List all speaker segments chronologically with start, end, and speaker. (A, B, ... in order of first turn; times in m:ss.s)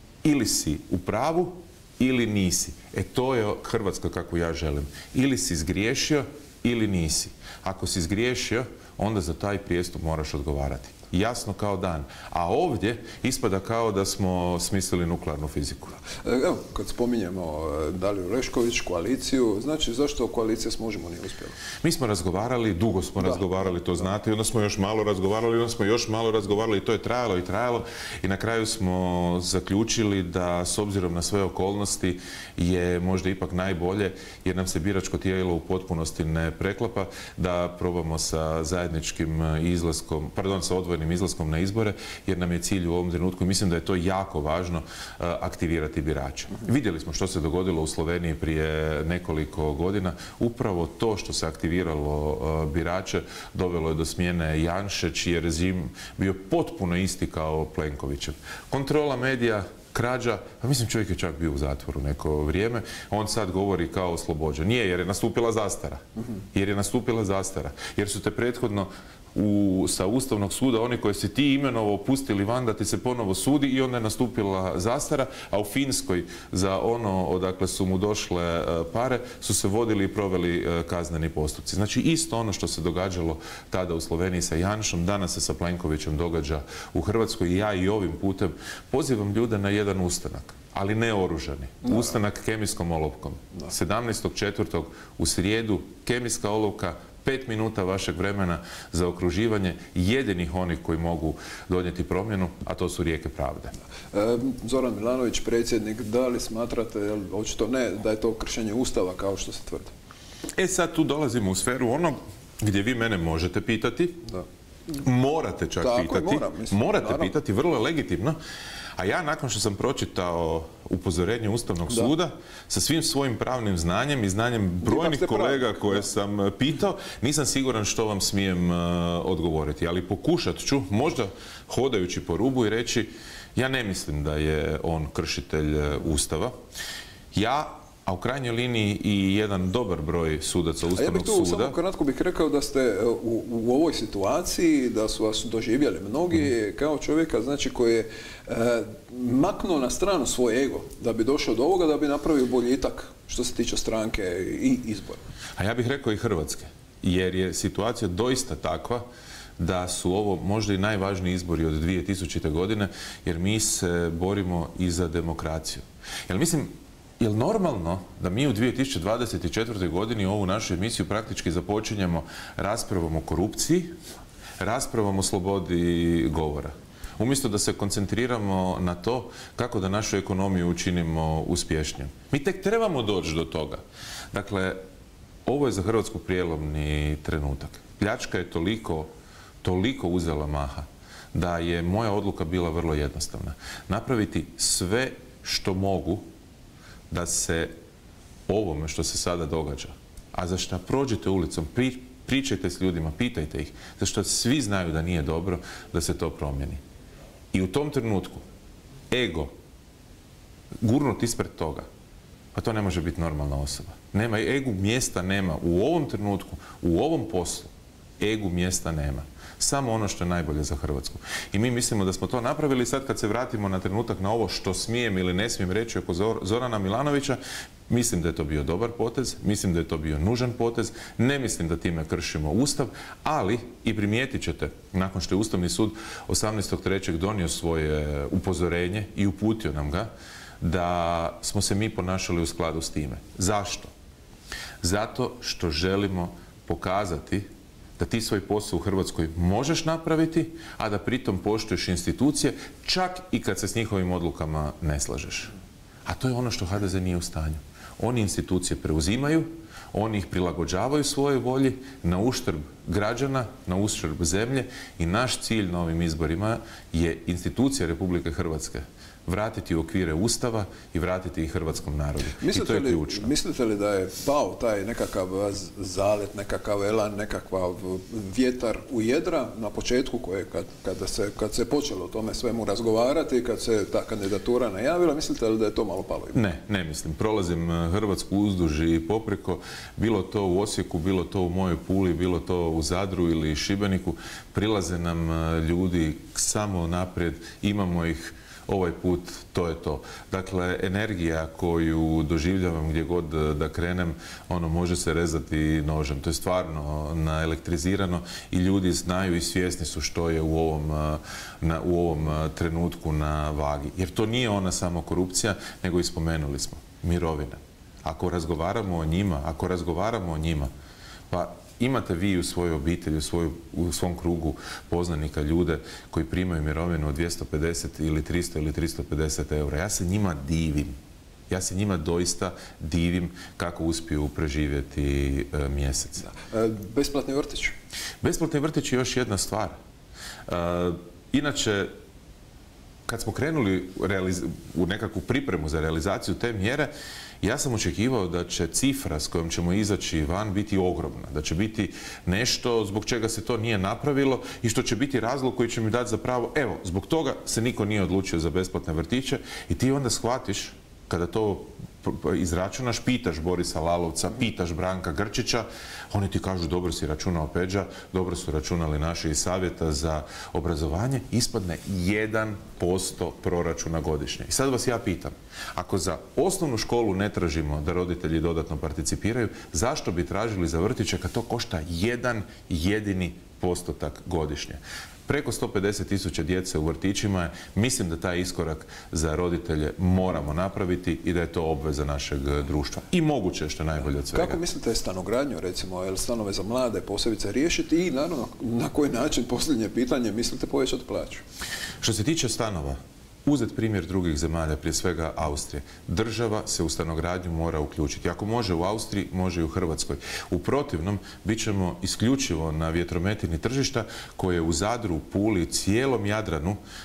0:00.2-0:16.0 A
0:16.2-0:21.6 B
0:21.8-1:06.0 A
1:06.5-1:43.7 A
1:44.1-1:49.9 B
1:50.6-1:54.3 A
1:54.9-1:58.4 A
1:55.8-1:57.3 B
1:59.0-2:16.5 A
2:04.8-2:06.0 B
2:17.3-2:21.8 A
2:20.9-2:35.2 B
2:35.6-2:39.0 A
2:39.6-2:54.0 A
2:54.6-3:04.8 A
3:05.5-3:09.1 A
3:09.6-3:16.2 A
3:17.1-3:17.7 A
3:18.5-3:26.8 A
3:27.5-3:28.4 A
3:29.1-3:29.5 A
3:30.8-3:31.9 A
3:32.5-4:00.1 A
4:00.6-4:03.9 A
4:04.8-4:15.5 A
4:16.1-4:33.3 A
4:32.4-4:46.4 B
4:46.3-5:20.7 A
5:21.3-5:30.9 A
5:31.5-5:36.3 A
5:36.2-5:37.7 B
5:38.2-5:39.8 A
5:40.5-5:41.9 A
5:43.1-5:46.9 A
5:47.4-6:34.6 A
6:34.3-6:41.4 B
6:42.0-6:56.8 A